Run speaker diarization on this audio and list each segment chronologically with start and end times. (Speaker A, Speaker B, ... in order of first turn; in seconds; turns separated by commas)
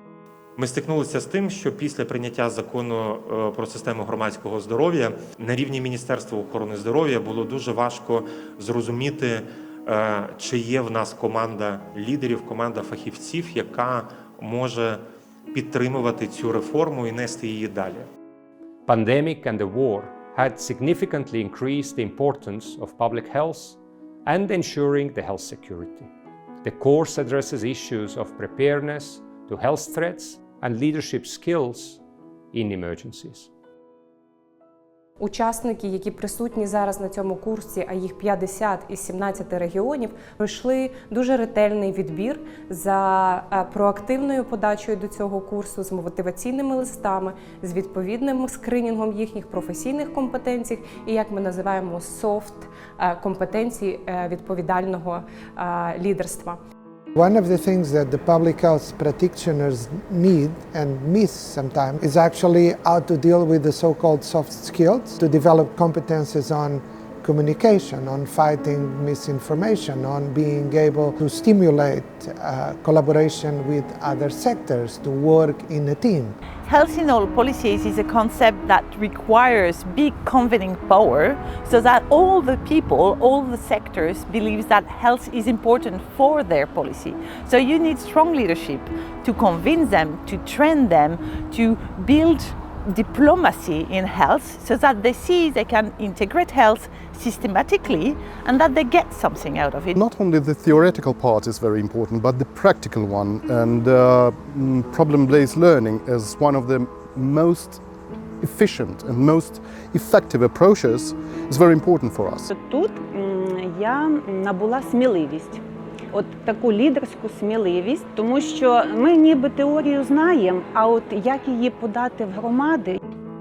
Speaker A: 0.6-15.0, Speaker A: 15.5-18.1, Speaker B: 18.9-26.1, Speaker B: 26.6-32.0, Speaker B: 32.5-33.5, Speaker C: 35.2-56.6, Speaker D: 57.1-76.3, Speaker E: 76.7-92.5, Speaker E: 93.0-99.9, Speaker F: 99.9-107.8, Speaker F: 108.4-112.5, Speaker G: 112.5-123.0